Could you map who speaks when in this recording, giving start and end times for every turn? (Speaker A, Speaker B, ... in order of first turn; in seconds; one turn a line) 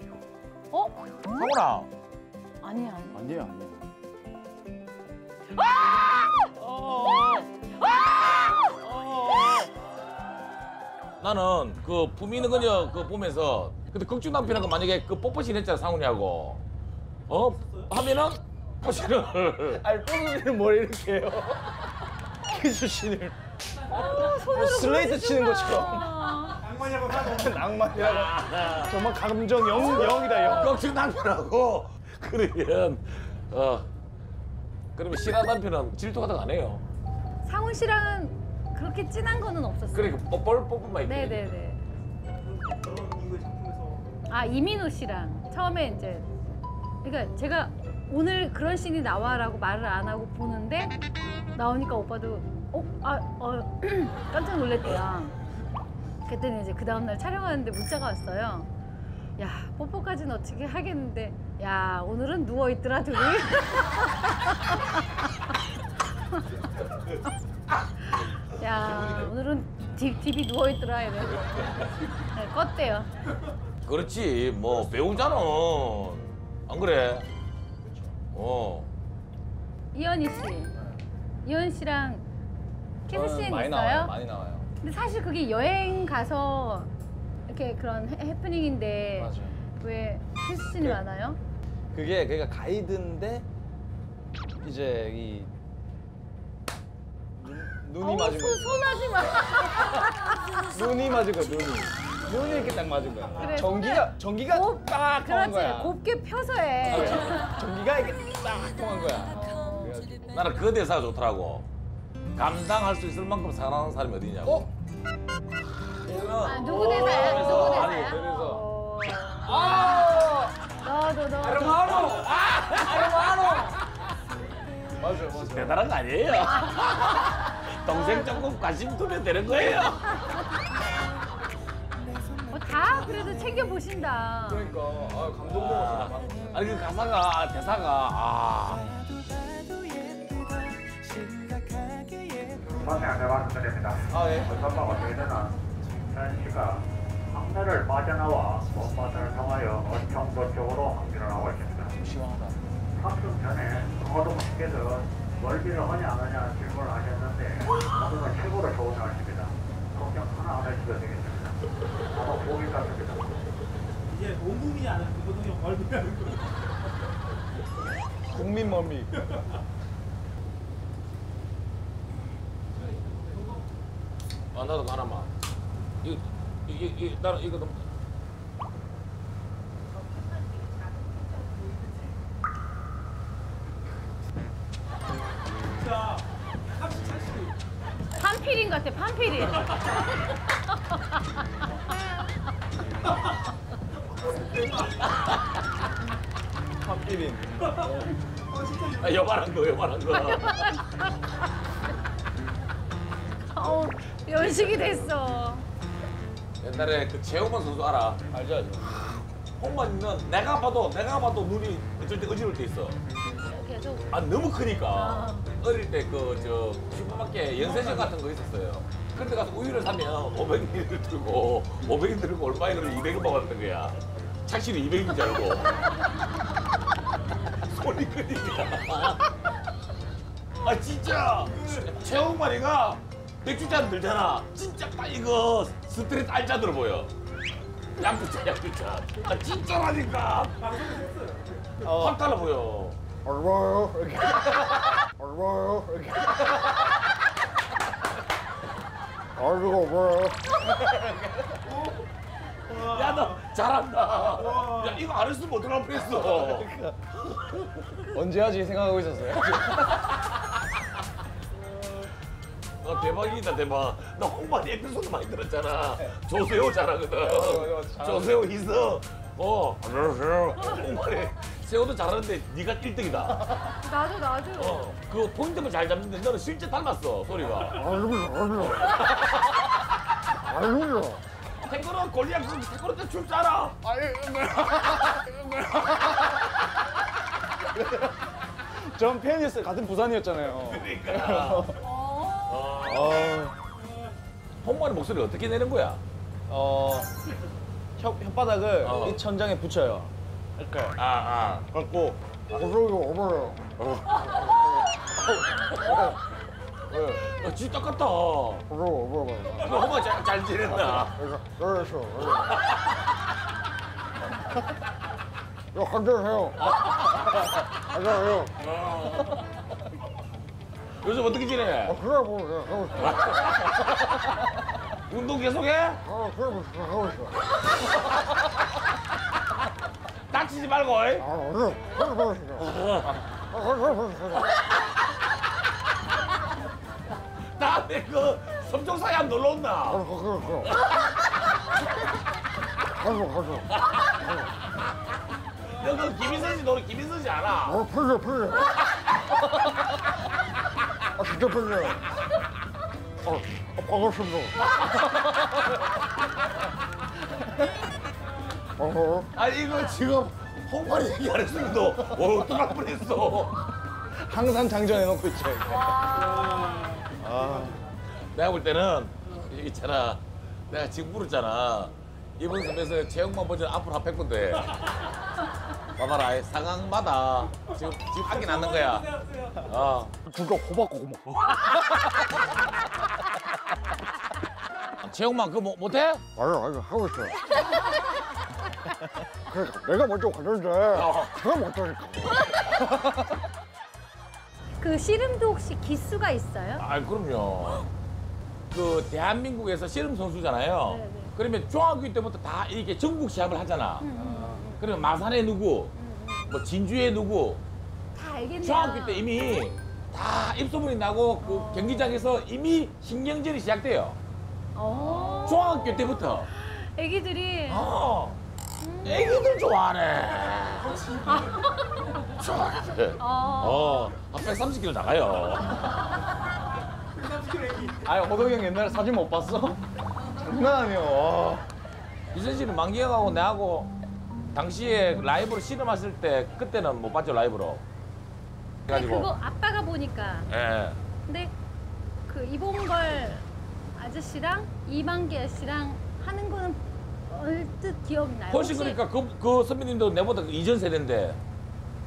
Speaker A: 0.7-1.0
Speaker B: 1.3-1.9
Speaker A: 2.6-3.3
Speaker C: 3.1-3.9
Speaker C: 6.5-7.5
Speaker B: 8.1-8.4
Speaker C: 8.7-9.7
Speaker B: 11.2-16.6
Speaker B: 17.3-19.8
Speaker C: 19.7-23.4
Speaker A: 23.9-26.7
Speaker C: 24.0-30.8
Speaker B: 27.9-29.0
Speaker A: 29.8-30.7
Speaker B: 29.8-33.9
Speaker B: 35.0-36.9
Speaker A: 37.4-40.2
Speaker B: 39.9-41.5
Speaker A: 41.0-41.8
Speaker D: 42.6-44.0
Speaker A: 44.3-46.3
Speaker A: 47.0-51.0
Speaker A: 51.5-55.4
Speaker A: 56.3-58.7
Speaker A: 59.4-65.2
Speaker A: 68.0-73.1
Speaker B: 73.8-77.3
Speaker B: 78.3-78.9
Speaker A: 79.9-80.7
Speaker A: 81.4-82.2
Speaker A: 83.1-84.1
Speaker C: 83.1-84.7
Speaker A: 84.8-86.9
Speaker A: 87.5-91.4
Speaker C: 89.2-89.6
Speaker C: 91.9-93.5
Speaker C: 94.6-95.5
Speaker C: 97.4-98.8
Speaker A: 98.0-100.8
Speaker C: 100.7-106.0
Speaker A: 103.4-107.5
Speaker C: 106.9-110.4
Speaker B: 107.0-107.2
Speaker B: 110.3-111.7
Speaker B: 112.3-114.7
Speaker C: 114.4-114.7
Speaker B: 116.0-118.2
Speaker A: 116.4-122.1
Speaker C: 117.2-118.6
Speaker C: 119.5-120.5
Speaker B: 119.5-120.0
Speaker B: 121.4-123.7
Speaker C: 122.8-123.8
Speaker C: 125.0-125.8
Speaker B: 125.3-130.2
Speaker A: 127.9-128.5
Speaker A: 132.5-134.7
Speaker C: 134.5-136.6
Speaker B: 135.4-139.0
Speaker E: 142.6-151.9
Speaker C: 144.1-144.7
Speaker C: 151.9-152.6
Speaker E: 152.9-161.6
Speaker E: 162.1-163.4
Speaker D: 164.1-166.5
Speaker C: 168.2-169.2
Speaker B: 174.5-175.3
Speaker B: 176.0-177.8
Speaker D: 186.8-187.5
Speaker A: 188.2-189.8
Speaker C: 196.8-197.6
Speaker B: 198.5-200.8
Speaker A: 200.1-201.1
Speaker A: 203.5-205.7
Speaker B: 206.6-208.2
Speaker C: 208.3-209.0
Speaker B: 209.6-213.0
Speaker A: 213.3-214.1
Speaker B: 214.1-225.8
Speaker A: 214.9-215.4
Speaker B: 227.6-229.3
Speaker B: 230.6-237.1
Speaker B: 238.0-241.1
Speaker D: 241.2-241.6
Speaker B: 241.8-243.0
Speaker C: 241.8-242.2
Speaker C: 243.3-246.7
Speaker C: 249.5-250.1
Speaker C: 250.8-251.7
Speaker B: 252.7-256.7
Speaker C: 256.1-257.0
Speaker B: 257.3-257.6
Speaker C: 258.1-260.0
Speaker B: 262.8-273.6
Speaker C: 267.2-268.5
Speaker A: 273.8-274.8
Speaker B: 274.6-279.3
Speaker B: 281.6-283.8
Speaker C: 283.9-286.2
Speaker C: 287.7-288.1
Speaker C: 288.7-291.8
Speaker B: 290.6-291.7
Speaker A: 291.8-292.6
Speaker B: 292.5-293.4
Speaker C: 292.9-293.6
Speaker B: 294.6-296.0
Speaker C: 296.5-297.1
Speaker C: 298.0-301.0
Speaker B: 298.8-299.2
Speaker B: 301.0-301.7
Speaker C: 301.7-303.0
Speaker B: 303.8-304.8
Speaker B: 305.6-306.2
Speaker B: 306.9-308.7
Speaker B: 309.5-311.4
Speaker B: 312.0-313.0
Speaker B: 316.8-317.5
Speaker B: 318.4-319.4
Speaker B: 321.0-322.2
Speaker B: 322.9-323.8
Speaker B: 325.1-326.1
Speaker B: 330.3-331.3
Speaker B: 332.5-333.2
Speaker B: 337.4-340.7
Speaker B: 343.7-344.4
Speaker B: 345.6-348.0
Speaker B: 359.3-363.7
Speaker C: 364.1-366.0
Speaker A: 365.7-367.1
Speaker C: 367.2-367.9
Speaker B: 368.3-375.0
Speaker B: 376.0-380.1
Speaker C: 380.3-381.4
Speaker B: 385.0-386.2
Speaker B: 390.7-391.8
Speaker A: 394.8-396.9
Speaker B: 396.8-397.9
Speaker B: 398.7-404.1
Speaker A: 400.9-401.3
Speaker A: 404.0-404.9
Speaker C: 404.2-404.6
Speaker B: 404.8-405.9
Speaker A: 405.9-406.6
Speaker B: 406.5-407.6
Speaker A: 408.1-409.3
Speaker B: 408.6-414.2
Speaker A: 411.4-412.2
Speaker A: 414.8-417.9
Speaker B: 415.4-416.5
Speaker B: 417.7-418.4
Speaker A: 418.8-419.5
Speaker B: 419.1-421.2
Speaker A: 421.2-422.2
Speaker B: 422.3-426.0
Speaker A: 423.2-424.1
Speaker D: 427.6-427.9
Speaker C: 428.0-429.8
Speaker C: 430.3-431.7
Speaker B: 432.3-433.9
Speaker B: 434.5-437.8
Speaker B: 438.9-439.3
Speaker A: 438.9-440.5
Speaker B: 440.5-441.0
Speaker A: 441.3-441.5
Speaker A: 442.3-449.0
Speaker B: 448.5-451.4